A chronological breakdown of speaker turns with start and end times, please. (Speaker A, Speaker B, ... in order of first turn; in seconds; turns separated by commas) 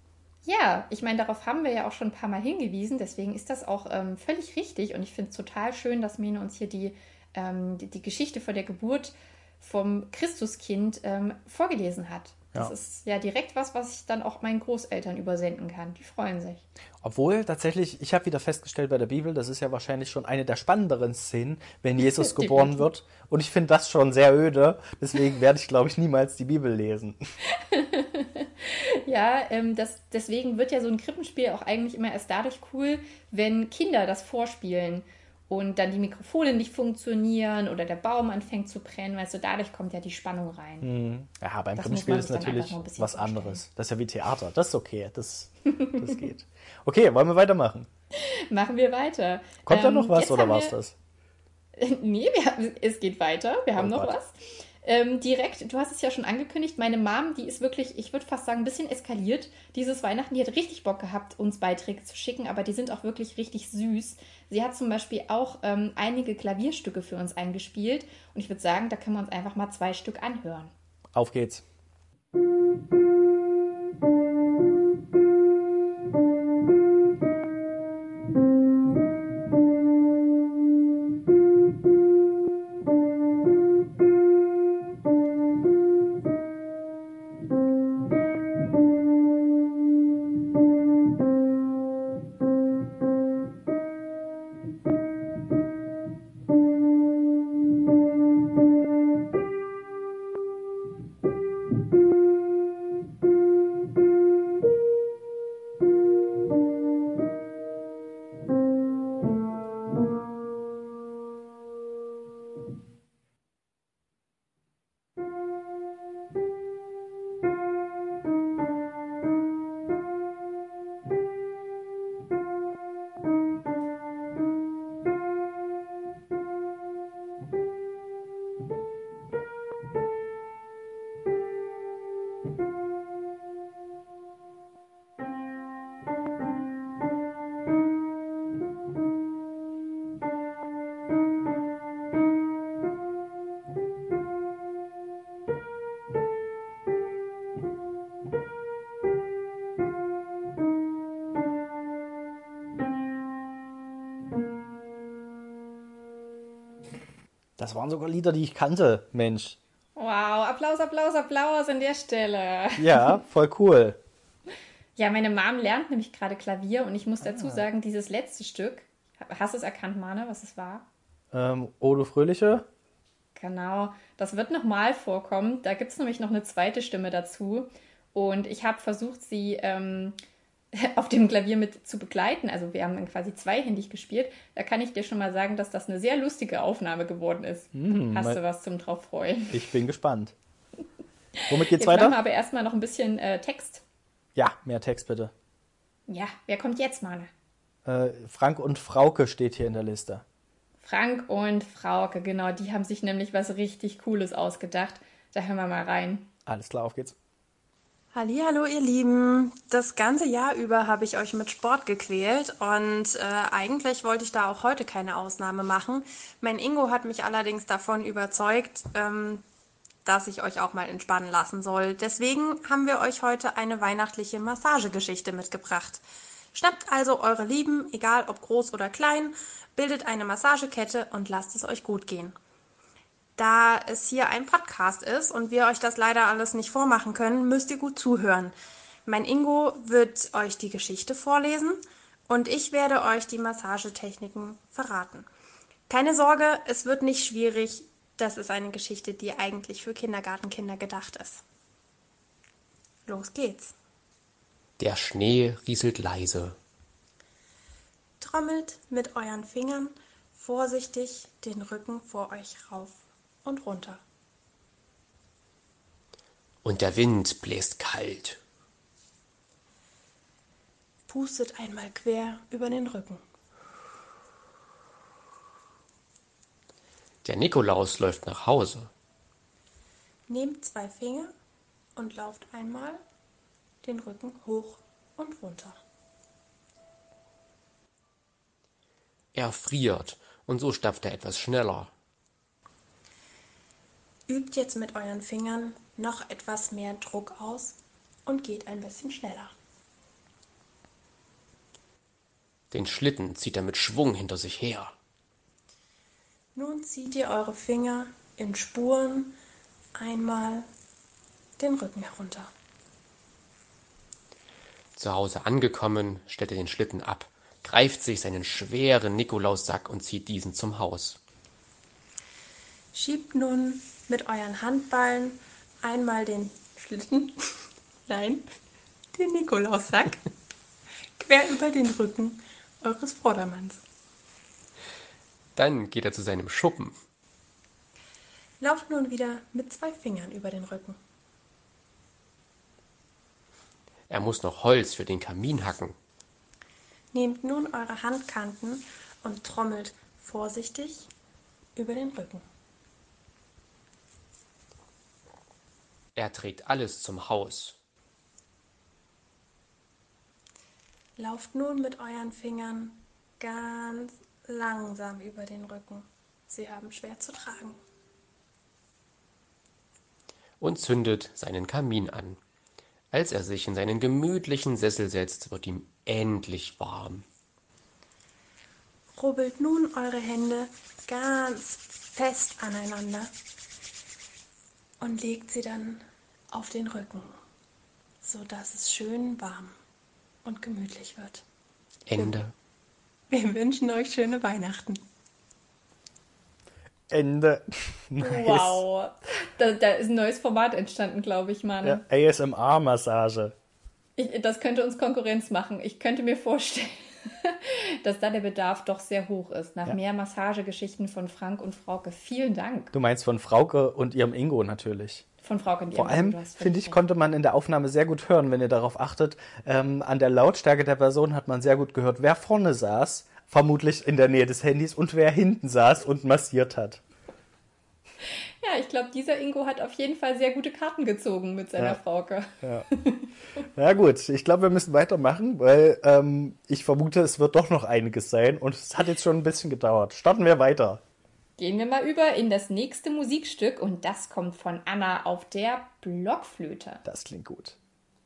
Speaker A: 0.4-16.6, Speaker B: 17.0-27.2, Speaker A: 22.2-22.8, Speaker A: 27.7-40.9, Speaker B: 40.8-47.9, Speaker A: 41.8-43.6, Speaker A: 48.1-50.7, Speaker B: 49.6-50.9, Speaker A: 51.8-70.7, Speaker B: 53.8-54.1, Speaker B: 71.1-71.6, Speaker B: 157.6-159.6, Speaker A: 159.9-163.2, Speaker B: 162.8-164.0, Speaker A: 164.9-170.8, Speaker B: 167.2-167.6, Speaker B: 171.3-172.7, Speaker A: 173.3-180.2, Speaker A: 180.7-189.6, Speaker B: 187.7-188.4, Speaker B: 189.5-190.3, Speaker B: 191.5-192.2, Speaker A: 191.7-193.8, Speaker B: 194.3-195.3, Speaker A: 196.1-197.3, Speaker B: 197.8-200.2, Speaker A: 200.8-206.3, Speaker B: 206.4-207.2, Speaker C: 208.1-219.4, Speaker C: 220.0-226.0, Speaker C: 226.5-232.3, Speaker C: 233.4-238.5, Speaker C: 239.1-245.3, Speaker C: 245.9-251.4, Speaker C: 253.1-253.7, Speaker D: 254.8-256.6, Speaker C: 258.2-264.0, Speaker D: 266.6-268.4, Speaker C: 271.1-273.2, Speaker D: 277.2-278.9, Speaker C: 280.3-281.3, Speaker C: 281.9-283.0, Speaker C: 283.8-285.8, Speaker D: 289.3-291.9, Speaker C: 294.3-299.5, Speaker D: 302.7-304.9, Speaker C: 306.5-309.3, Speaker C: 309.9-310.7, Speaker C: 311.6-312.5, Speaker D: 314.9-321.2, Speaker C: 322.9-327.3, Speaker C: 328.1-328.4, Speaker C: 329.1-330.2, Speaker C: 331.2-333.8, Speaker D: 335.5-337.0, Speaker C: 338.6-341.0, Speaker D: 344.1-346.0, Speaker C: 347.1-351.1, Speaker C: 351.8-352.4, Speaker D: 356.1-357.8, Speaker C: 361.2-367.8, Speaker D: 370.6-372.4, Speaker D: 373.1-377.2, Speaker C: 379.1-383.3, Speaker C: 385.0-387.4, Speaker C: 388.2-389.8, Speaker C: 390.4-391.4, Speaker D: 392.1-392.5, Speaker C: 393.3-395.0, Speaker B: 397.1-398.8, Speaker A: 398.2-402.0, Speaker B: 401.8-403.5, Speaker A: 404.2-412.9, Speaker B: 412.9-415.2, Speaker A: 415.4-417.0, Speaker B: 415.9-427.0, Speaker A: 428.6-432.5, Speaker B: 433.8-441.0, Speaker A: 441.6-447.0, Speaker B: 447.0-447.8